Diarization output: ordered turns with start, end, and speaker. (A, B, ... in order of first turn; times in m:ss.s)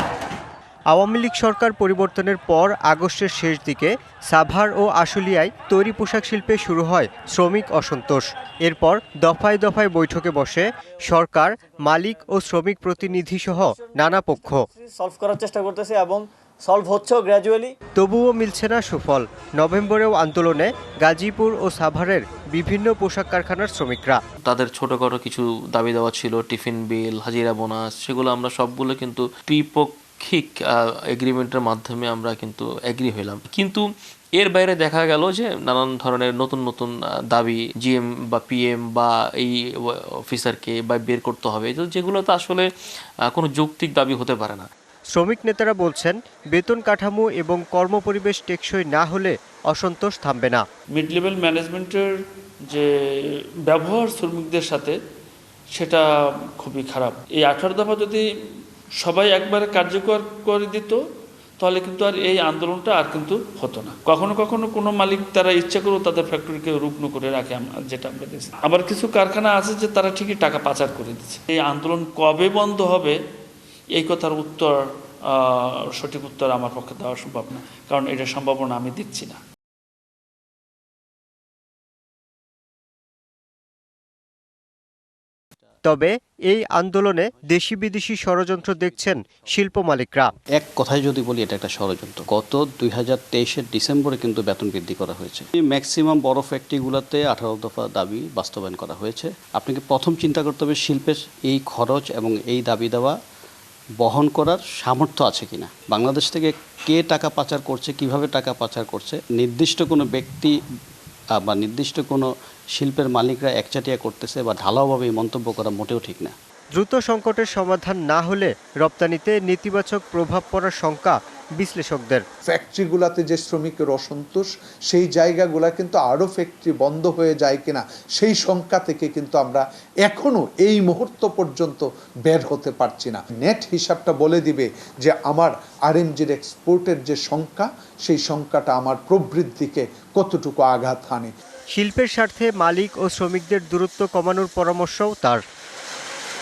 0:00.9-0:14.7 A
0:14.8-0:17.7 B
0:18.0-0:24.2 A
0:24.4-0:42.7 C
0:43.3-0:44.7 C
0:45.1-0:50.6 A
0:50.9-0:52.1 D
0:53.7-0:54.9 D
0:55.7-0:56.0 D
0:56.6-0:58.2 D
0:59.0-1:01.0 D
1:01.6-1:13.1 D
1:13.9-1:14.7 D
1:15.3-1:19.4 D
1:25.8-1:30.3 A
1:30.5-1:43.2 E
1:44.0-1:50.5 E
1:51.4-1:56.3 E
1:56.7-2:02.2 A
2:02.5-2:21.3 F
2:21.7-2:25.4 A